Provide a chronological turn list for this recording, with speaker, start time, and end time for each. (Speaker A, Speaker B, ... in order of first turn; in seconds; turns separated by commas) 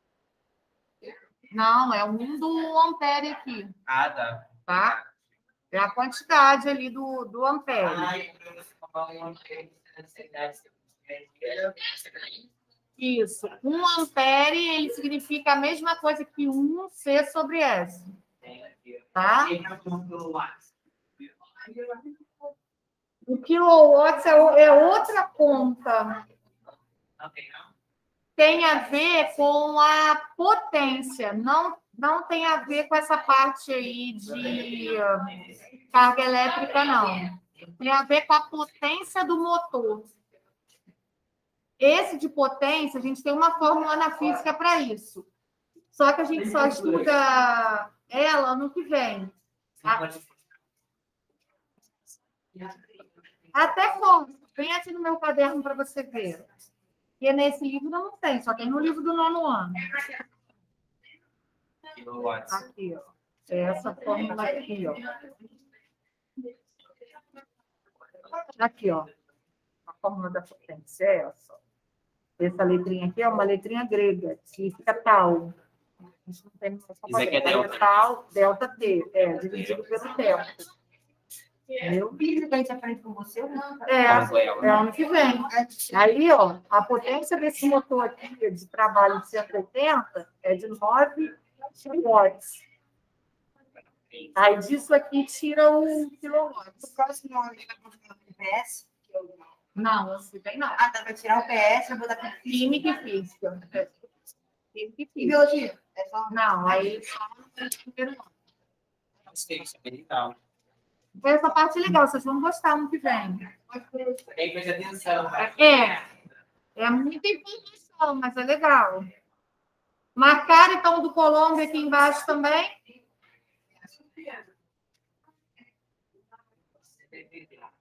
Speaker A: 1.5-3.7, Speaker B: 3.9-5.0, Speaker A: 4.7-5.0, Speaker A: 5.7-8.1, Speaker B: 7.8-12.3, Speaker A: 13.0-18.1, Speaker B: 18.4-20.6, Speaker A: 19.1-19.5, Speaker A: 23.2-26.2, Speaker B: 27.2-27.7, Speaker A: 28.4-35.3, Speaker A: 35.9-40.1, Speaker A: 41.8-45.3, Speaker A: 45.9-50.0, Speaker B: 46.7-47.1, Speaker B: 49.8-50.4, Speaker A: 53.5-56.5, Speaker A: 57.2-59.9, Speaker B: 61.9-62.6, Speaker A: 62.5-65.1, Speaker A: 68.5-69.1, Speaker A: 70.0-71.6, Speaker A: 72.4-75.5, Speaker A: 76.4-80.6, Speaker B: 77.0-77.9, Speaker B: 79.4-79.8, Speaker A: 81.8-82.2, Speaker C: 82.1-84.4, Speaker A: 83.8-92.6, Speaker B: 84.0-84.8, Speaker C: 85.4-85.9, Speaker A: 94.3-96.8, Speaker C: 96.8-99.4, Speaker A: 99.8-100.8, Speaker C: 100.7-102.8, Speaker A: 102.4-103.9, Speaker A: 104.7-105.3, Speaker C: 105.2-106.8, Speaker A: 106.3-108.3, Speaker B: 109.3-110.4, Speaker A: 111.2-113.6, Speaker B: 114.2-115.7, Speaker A: 115.4-116.1, Speaker A: 116.8-119.1, Speaker A: 120.2-122.8, Speaker B: 127.1-127.7